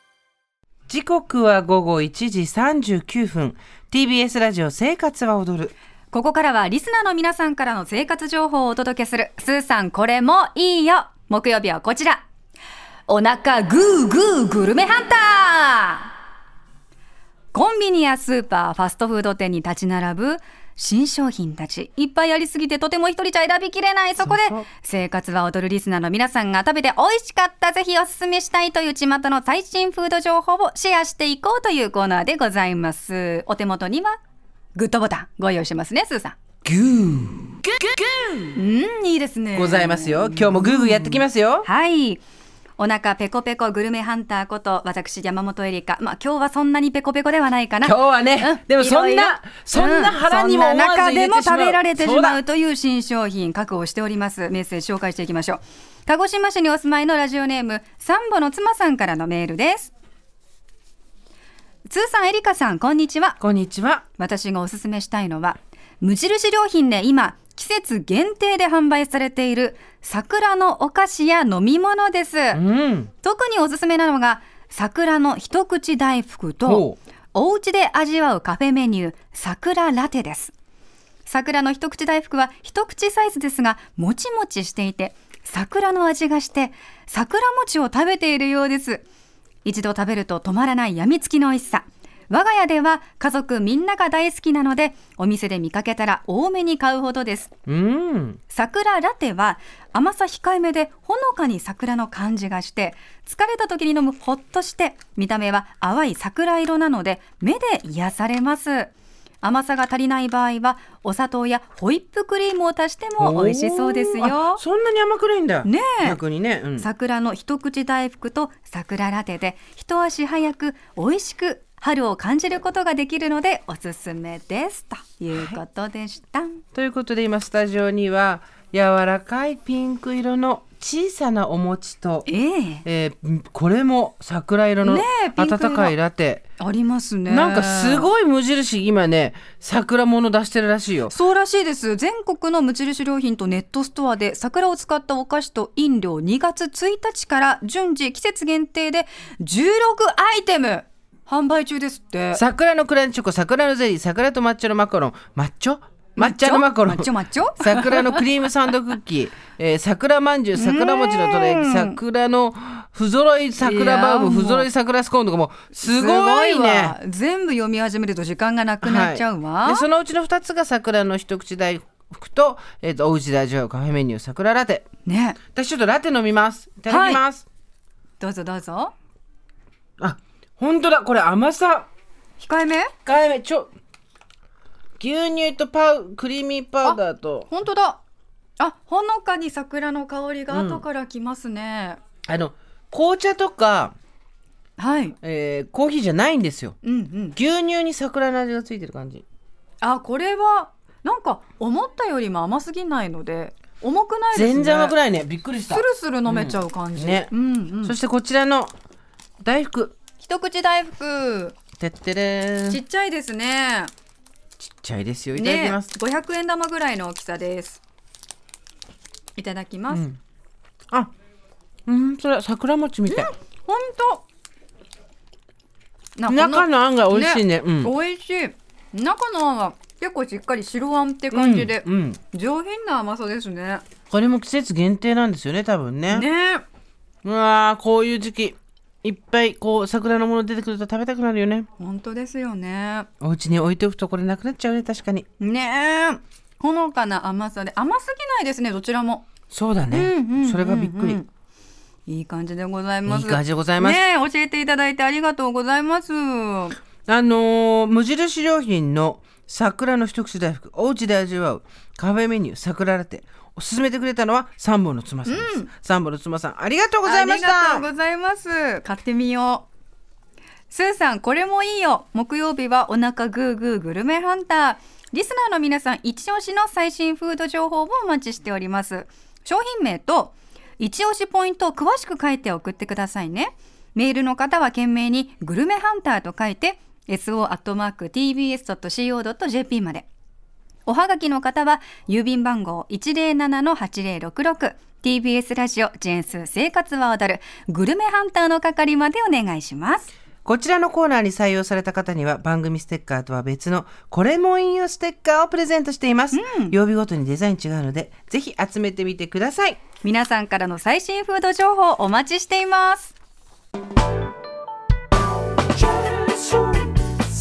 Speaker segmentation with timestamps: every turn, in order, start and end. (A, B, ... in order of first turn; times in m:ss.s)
0:00.9-0:05.7 A
0:06.1-0:12.2 B
0:13.1-0:16.1 B
0:17.5-0:34.2 B
0:24.2-0:24.6 A
0:34.7-0:36.4 B
0:36.6-0:38.5 A
0:38.5-0:42.2 B
0:39.5-0:41.7 A
0:42.8-0:59.9 B
0:47.8-0:52.4 A
1:01.9-1:03.4 B
1:03.4-1:04.0 A
1:04.2-1:12.6 B
1:12.5-1:13.1 A
1:13.2-1:20.5 B
1:16.6-1:17.0 A
1:21.2-1:29.0 B
1:29.6-1:37.5 B
1:37.7-1:38.4 A
1:38.5-1:48.9 B
1:49.4-1:54.6 B
1:53.2-1:56.9 A
1:55.6-1:56.2 B
1:56.8-2:06.6 B
2:05.3-2:05.6 A
2:06.7-2:12.3 A
2:12.2-2:12.8 B
2:12.8-2:16.4 A
2:14.8-2:15.9 B
2:16.6-2:18.1 B
2:17.3-2:21.1 A
2:21.1-2:32.4 B
2:32.3-2:46.9 A
2:36.2-2:38.2 B
2:40.5-2:42.0 B
2:43.6-2:44.7 B
2:45.7-2:49.8 B
2:48.8-2:54.8 A
2:55.0-2:55.4 B
2:55.5-2:57.4 A
2:56.9-2:57.2 B
2:58.2-2:58.9 B
3:00.0-3:01.9 A
3:02.4-3:02.9 B
3:03.0-3:03.7 A
3:05.0-3:07.5 A
3:06.8-3:08.0 B
3:08.6-3:12.0 B
3:10.5-3:10.8 A
3:12.3-3:13.9 A
3:14.8-3:15.2 B
3:15.2-3:16.8 A
3:16.8-3:17.4 B
3:17.4-3:19.2 A
3:19.8-3:25.0 B
3:24.3-3:27.3 A
3:25.7-3:28.0 B
3:27.8-3:28.7 A
3:29.4-3:29.9 A
3:30.2-3:31.6 B
3:31.8-3:32.8 A
3:32.7-3:33.9 B
3:34.6-3:35.9 A
3:35.3-3:37.8 B
3:39.4-3:40.1 B
3:39.9-3:40.2 A
3:41.9-3:43.3 A
3:43.1-3:44.2 B
3:46.2-3:53.8 B
3:46.3-3:47.9 A
3:51.3-3:52.2 A
3:54.1-3:56.3 A
3:56.1-3:56.6 B
3:57.2-4:01.7 A
4:01.8-4:03.1 B
4:03.2-4:05.2 A
4:05.4-4:09.3 B
4:09.5-4:11.2 A
4:09.9-4:11.3 B
4:12.1-4:16.8 B
4:13.0-4:14.0 A
4:17.0-4:27.9 A
4:25.2-4:25.7 B
4:27.0-4:29.7 B
4:30.7-4:50.1 B
4:50.8-5:00.1 B
5:00.4-5:09.8 A
5:06.3-5:06.8 B
5:10.0-5:13.1 B